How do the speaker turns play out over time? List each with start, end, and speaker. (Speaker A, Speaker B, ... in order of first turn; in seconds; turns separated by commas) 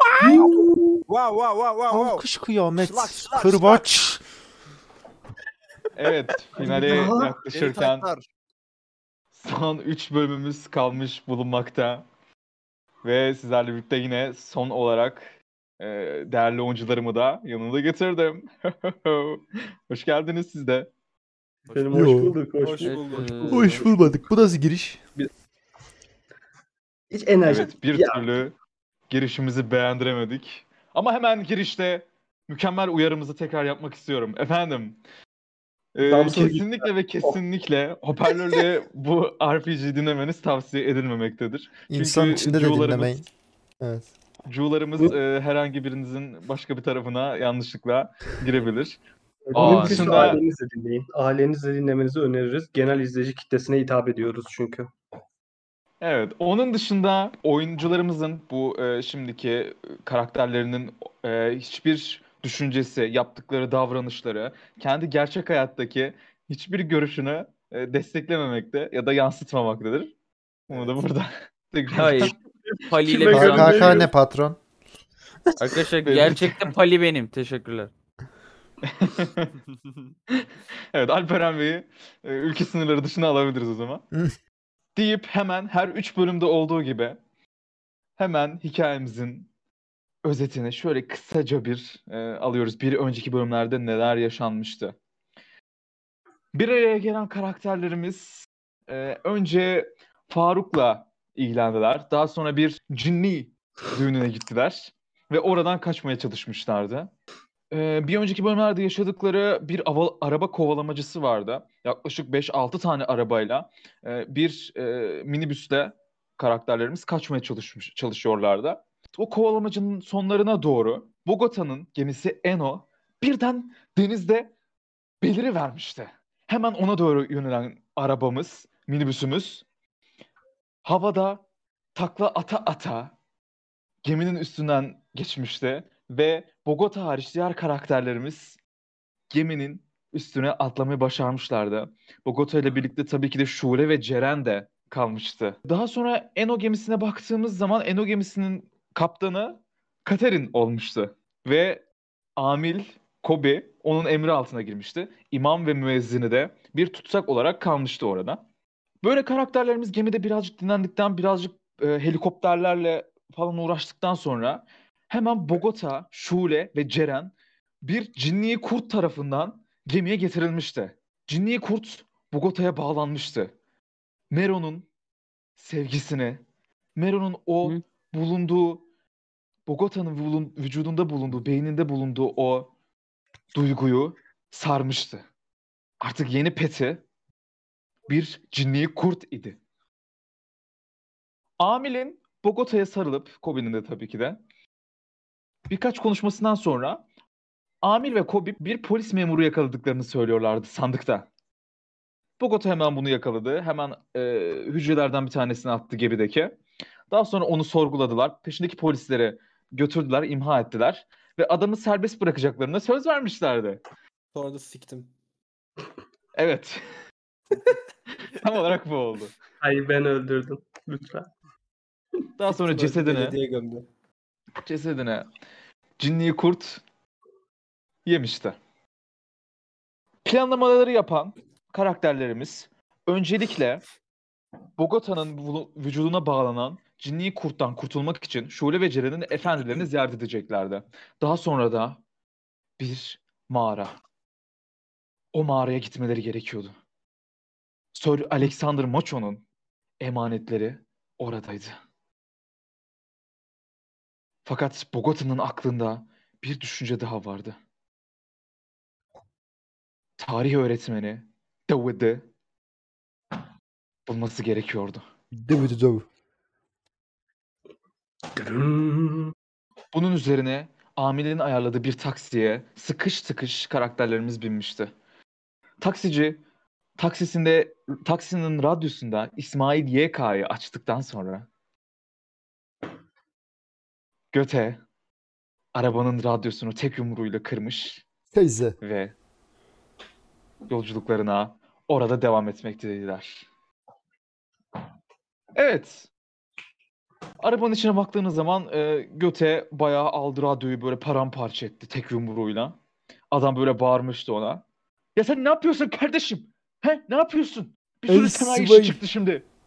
Speaker A: 0.2-0.7, Speaker B: 0.2-0.7, Speaker C: 1.1-2.2, Speaker A: 1.9-4.2, Speaker C: 2.8-3.8, Speaker D: 6.0-8.0, Speaker B: 6.5-7.4, Speaker C: 7.5-8.2, Speaker D: 9.3-12.0, Speaker D: 13.0-15.3, Speaker D: 15.8-20.9, Speaker B: 21.7-24.2, Speaker A: 21.9-22.4, Speaker E: 22.6-23.8, Speaker D: 22.8-23.2, Speaker F: 22.8-23.6, Speaker A: 23.5-25.0, Speaker B: 27.1-28.3, Speaker D: 27.4-28.5, Speaker D: 29.1-35.0, Speaker D: 35.9-43.2, Speaker E: 36.0-36.5, Speaker B: 36.1-36.7, Speaker A: 41.9-43.3, Speaker A: 43.8-44.1, Speaker D: 44.5-49.0, Speaker B: 49.5-54.9, Speaker D: 49.5-50.4, Speaker F: 49.5-50.0, Speaker D: 56.0-70.1, Speaker D: 70.7-72.3, Speaker F: 72.0-72.3, Speaker B: 72.5-74.1, Speaker F: 72.9-74.1, Speaker A: 73.3-74.6, Speaker F: 75.6-77.9, Speaker D: 76.0-76.7, Speaker D: 78.8-79.5, Speaker D: 80.3-84.0, Speaker D: 85.0-87.2, Speaker D: 88.2-89.5, Speaker D: 90.2-94.9, Speaker D: 96.5-107.1, Speaker D: 107.7-124.5, Speaker D: 125.2-129.6, Speaker D: 130.8-131.4, Speaker D: 131.9-133.1, Speaker D: 134.0-138.6, Speaker D: 139.3-151.8, Speaker D: 152.4-158.4, Speaker D: 159.0-173.5, Speaker D: 174.3-174.8, Speaker D: 175.6-176.4, Speaker D: 176.9-178.8, Speaker D: 179.7-182.7, Speaker D: 183.5-185.2, Speaker D: 186.0-187.0, Speaker D: 188.1-189.6, Speaker D: 191.6-194.4, Speaker D: 195.7-197.0, Speaker D: 197.8-201.3, Speaker D: 202.4-206.6, Speaker D: 207.1-213.8, Speaker E: 214.3-215.1, Speaker D: 216.3-216.8, Speaker D: 218.3-219.3, Speaker B: 219.6-221.3, Speaker D: 222.4-223.4, Speaker E: 222.6-223.8, Speaker D: 224.7-225.3, Speaker D: 226.0-226.8, Speaker D: 228.1-228.6, Speaker D: 230.2-233.8, Speaker D: 234.8-242.0, Speaker D: 242.8-243.9, Speaker D: 245.3-246.7, Speaker D: 247.9-249.4, Speaker D: 250.0-251.7, Speaker D: 254.4-257.6, Speaker D: 260.2-262.2, Speaker D: 264.1-265.0, Speaker A: 265.3-266.1, Speaker B: 268.3-269.3, Speaker D: 269.9-274.9, Speaker D: 275.8-276.4, Speaker D: 277.0-281.5, Speaker D: 284.3-284.8, Speaker D: 285.7-288.0, Speaker A: 288.3-288.8, Speaker D: 288.8-289.1, Speaker D: 290.7-293.4, Speaker D: 295.5-296.1, Speaker D: 297.4-302.8, Speaker D: 303.3-304.6, Speaker D: 305.1-309.4, Speaker A: 308.1-309.0